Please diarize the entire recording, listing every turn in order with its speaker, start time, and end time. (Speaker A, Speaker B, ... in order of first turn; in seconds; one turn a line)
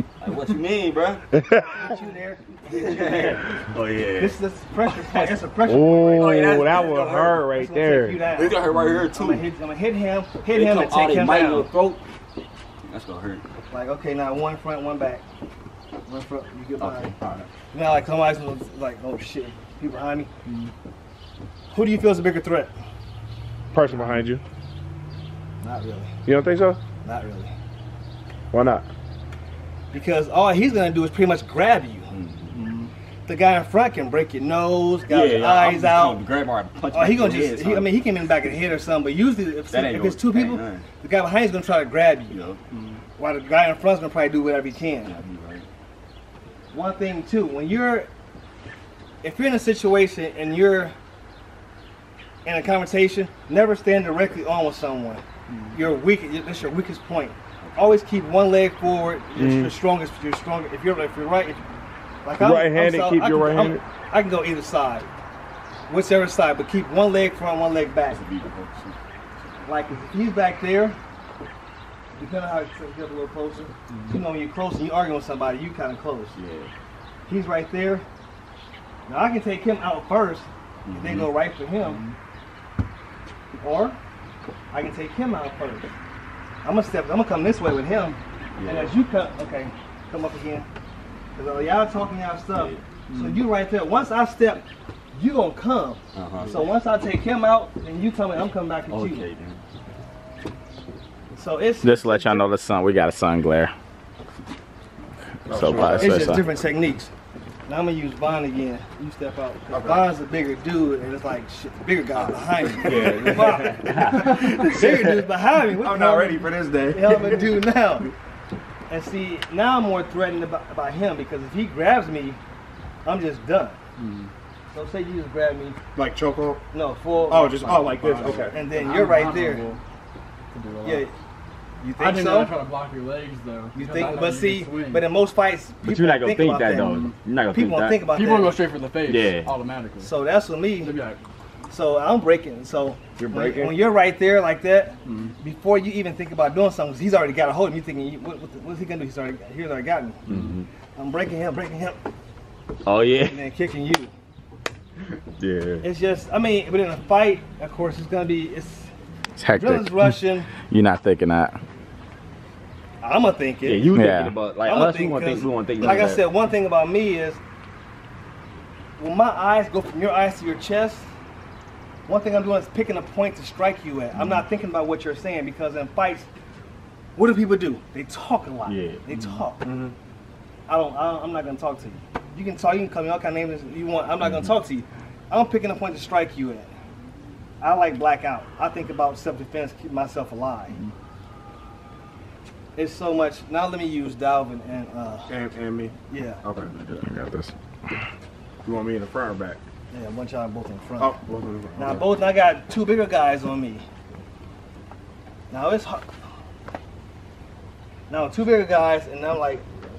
Speaker A: 0.2-1.3
Speaker B: 1.7-3.6
Speaker A: 2.7-5.4
Speaker B: 4.2-11.7
Speaker C: 5.7-8.2
Speaker A: 6.0-7.4
Speaker A: 8.3-9.4
Speaker A: 10.5-12.0
Speaker A: 12.9-13.4
Speaker B: 13.7-15.2
Speaker B: 16.1-17.1
Speaker A: 16.8-17.5
Speaker B: 17.7-20.3
Speaker B: 21.7-22.7
Speaker C: 23.7-24.4
Speaker B: 25.6-26.1
Speaker C: 26.2-26.8
Speaker B: 27.0-27.5
Speaker C: 28.5-28.9
Speaker B: 29.9-32.1
Speaker A: 32.1-32.9
Speaker B: 33.3-36.2
Speaker A: 35.1-38.0
Speaker B: 36.9-42.4
Speaker A: 39.7-40.9
Speaker A: 42.3-43.0
Speaker B: 43.2-45.1
Speaker A: 45.0-45.6
Speaker B: 46.7-48.1
Speaker B: 49.2-51.0
Speaker B: 52.5-61.6
Speaker C: 59.4-59.8
Speaker B: 62.2-65.1
Speaker C: 62.4-63.8
Speaker B: 65.9-68.2
Speaker A: 68.1-69.6
Speaker B: 69.6-71.0
Speaker B: 72.2-76.3
Speaker A: 73.9-74.2
Speaker A: 76.3-76.7
Speaker B: 77.3-78.1
Speaker B: 79.1-82.0
Speaker A: 80.9-81.3
Speaker B: 83.6-84.0
Speaker B: 84.7-85.9
Speaker B: 86.6-90.7
Speaker A: 88.6-89.0
Speaker B: 91.4-99.3
Speaker A: 92.5-92.8
Speaker D: 93.1-93.4
Speaker A: 96.1-96.7
Speaker A: 98.9-99.6
Speaker B: 101.3-102.5
Speaker D: 101.8-103.7
Speaker D: 105.5-106.5
Speaker C: 105.5-106.4
Speaker B: 106.0-107.1
Speaker B: 107.7-118.1
Speaker C: 109.7-110.1
Speaker C: 112.7-117.6
Speaker A: 112.8-114.0
Speaker D: 113.8-114.5
Speaker B: 118.9-122.4
Speaker B: 123.0-123.8
Speaker E: 124.0-124.3
Speaker B: 124.7-125.8
Speaker C: 125.9-126.6
Speaker B: 126.7-129.7
Speaker C: 127.3-128.6
Speaker E: 128.6-129.8
Speaker E: 130.5-131.1
Speaker B: 130.8-131.1
Speaker B: 131.8-132.6
Speaker E: 132.0-135.1
Speaker B: 133.7-138.7
Speaker D: 135.9-137.2
Speaker A: 135.9-138.0
Speaker E: 138.0-140.2
Speaker D: 139.1-139.5
Speaker B: 140.0-140.9
Speaker E: 140.8-141.2
Speaker B: 141.7-150.2
Speaker C: 143.2-143.8
Speaker E: 145.1-145.3
Speaker A: 150.3-150.7
Speaker B: 150.9-152.0
Speaker A: 152.8-153.4
Speaker B: 153.2-154.1
Speaker A: 155.4-155.8
Speaker B: 155.8-158.9
Speaker D: 159.4-161.6
Speaker B: 159.5-160.5
Speaker B: 163.0-163.9
Speaker A: 163.6-166.2
Speaker D: 163.9-164.4
Speaker B: 164.6-167.4
Speaker B: 169.0-171.1
Speaker B: 172.1-176.3
Speaker B: 177.2-179.6
Speaker D: 178.7-179.4
Speaker C: 179.6-179.9
Speaker B: 180.7-186.7
Speaker B: 187.6-190.8
Speaker B: 192.8-195.4
Speaker C: 195.3-196.7
Speaker B: 196.1-196.4
Speaker D: 196.7-197.9
Speaker C: 198.6-199.6
Speaker B: 199.9-201.1
Speaker C: 201.0-202.1
Speaker B: 201.8-203.9
Speaker B: 205.5-206.2
Speaker B: 208.1-209.7